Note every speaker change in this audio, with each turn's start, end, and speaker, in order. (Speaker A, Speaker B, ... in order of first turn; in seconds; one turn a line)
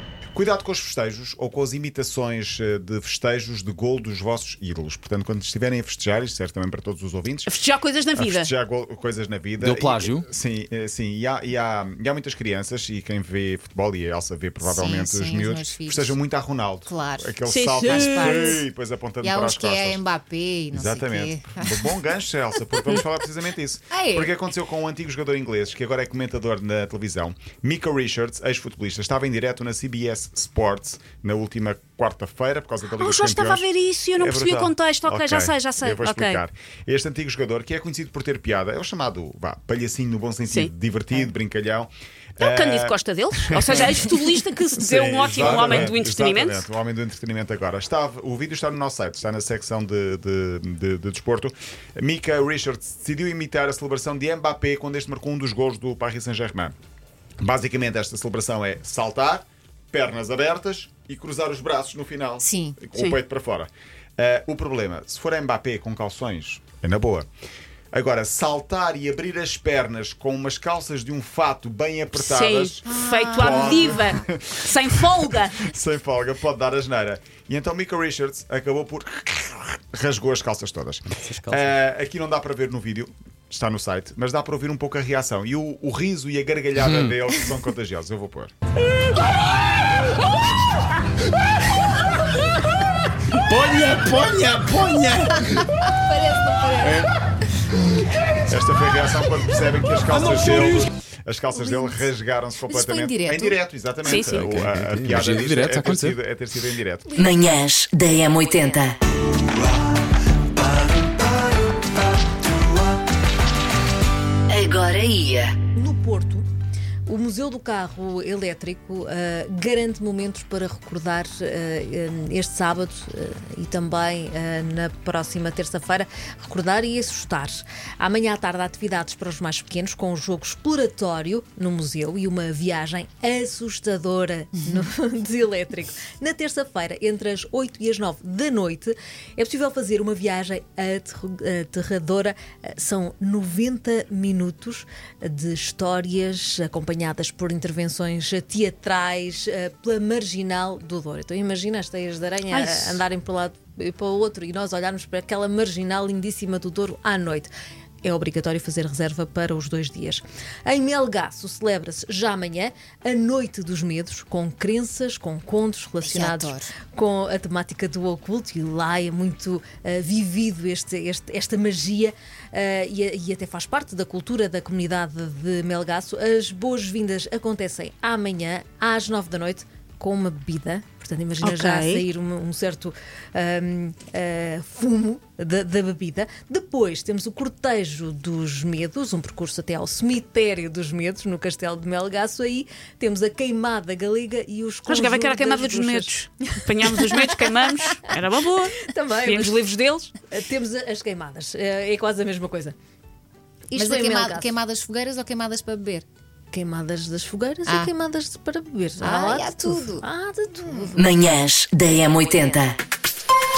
Speaker A: 0.3-7.6
Speaker B: 7.5-8.5
Speaker A: 8.1-20.0
Speaker C: 9.6-10.2
Speaker D: 14.6-16.2
Speaker D: 16.9-18.6
Speaker B: 17.5-18.6
Speaker D: 19.2-21.9
Speaker A: 20.7-43.0
Speaker D: 23.9-24.3
Speaker B: 33.0-36.4
Speaker B: 40.4-40.7
Speaker B: 42.4-46.6
Speaker A: 43.6-44.0
Speaker A: 44.8-56.7
Speaker A: 57.4-67.3
Speaker D: 62.4-62.8
Speaker A: 67.9-88.5
Speaker B: 72.1-75.7
Speaker D: 72.8-74.0
Speaker C: 81.1-81.8
Speaker C: 86.8-87.1
Speaker C: 93.4-95.3
Speaker D: 95.2-97.1
Speaker A: 98.5-107.1
Speaker C: 100.1-100.9
Speaker D: 101.5-102.1
Speaker D: 102.6-103.6
Speaker B: 104.0-104.4
Speaker C: 104.3-106.2
Speaker E: 107.2-109.0
Speaker E: 114.5-115.5
Speaker F: 115.8-116.5
Speaker F: 117.1-157.5
Speaker D: 134.6-134.8
Speaker B: 152.4-153.0
Speaker F: 158.0-197.5
Speaker D: 166.0-166.7
Speaker B: 181.4-182.1
Speaker B: 194.8-200.1
Speaker F: 198.8-199.6
Speaker F: 200.3-202.7
Speaker D: 203.7-206.1
Speaker F: 203.7-204.5
Speaker F: 206.5-211.0
Speaker D: 207.6-207.9
Speaker D: 209.0-210.1
Speaker D: 210.6-210.9
Speaker E: 210.9-212.8